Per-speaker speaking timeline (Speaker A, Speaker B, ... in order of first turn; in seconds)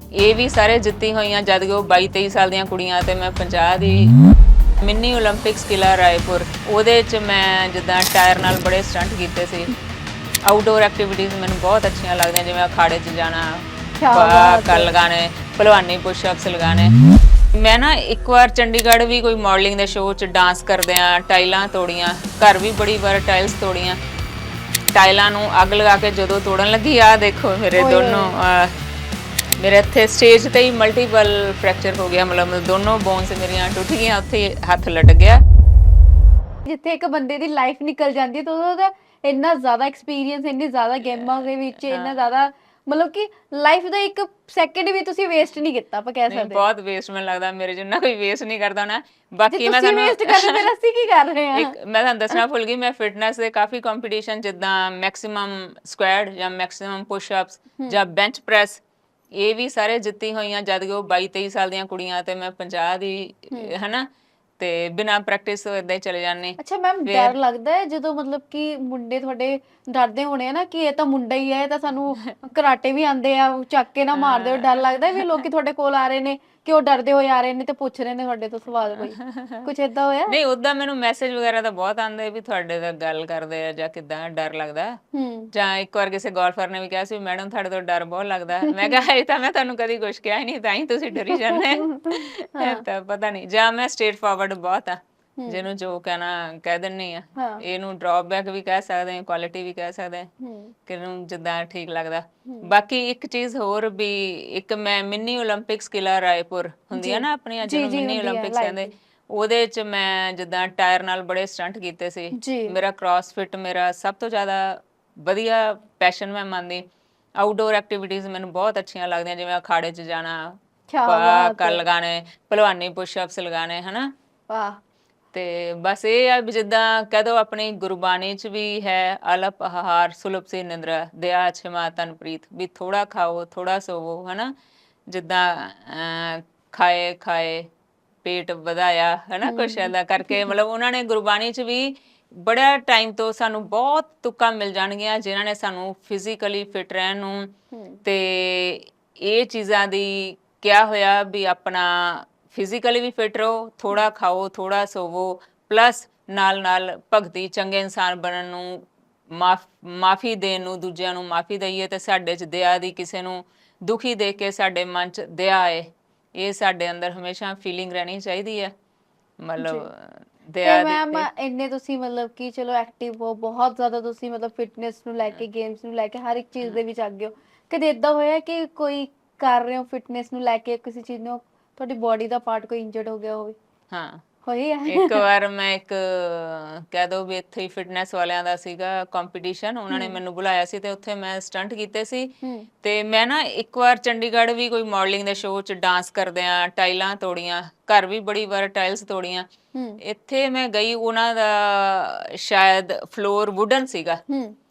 Speaker A: 0.2-4.1, 4.8-9.7, 10.5-16.9, 17.6-24.0, 24.9-28.7, 29.6-35.4, 41.0-42.1, 46.3-50.6, 51.5-58.8, 59.4-64.1, 64.6-67.3, 74.1-75.5, 79.0-79.7, 80.3-85.0, 85.5-100.3, 100.9-116.8, 117.4-120.5, 121.1-124.1, 125.3-134.5, 135.1-137.7, 138.2-147.5, 148.0-168.7, 169.4-171.3, 183.9-184.2, 184.9-199.5, 200.0-204.2
Speaker B: 14.0-14.9, 27.8-28.3, 36.7-46.6, 49.5-51.7, 66.6-80.4, 85.1-85.5, 88.7-88.9, 91.3-92.8, 95.4-95.6, 97.4-97.6, 100.4-100.7, 107.0-108.9, 112.4-112.8, 120.9-121.8, 124.5-124.8, 139.4-140.5, 147.7-148.0, 169.6-169.9, 170.6-183.6, 184.5-185.2, 189.9-190.2, 192.4-192.7, 199.7-200.0, 204.3-204.6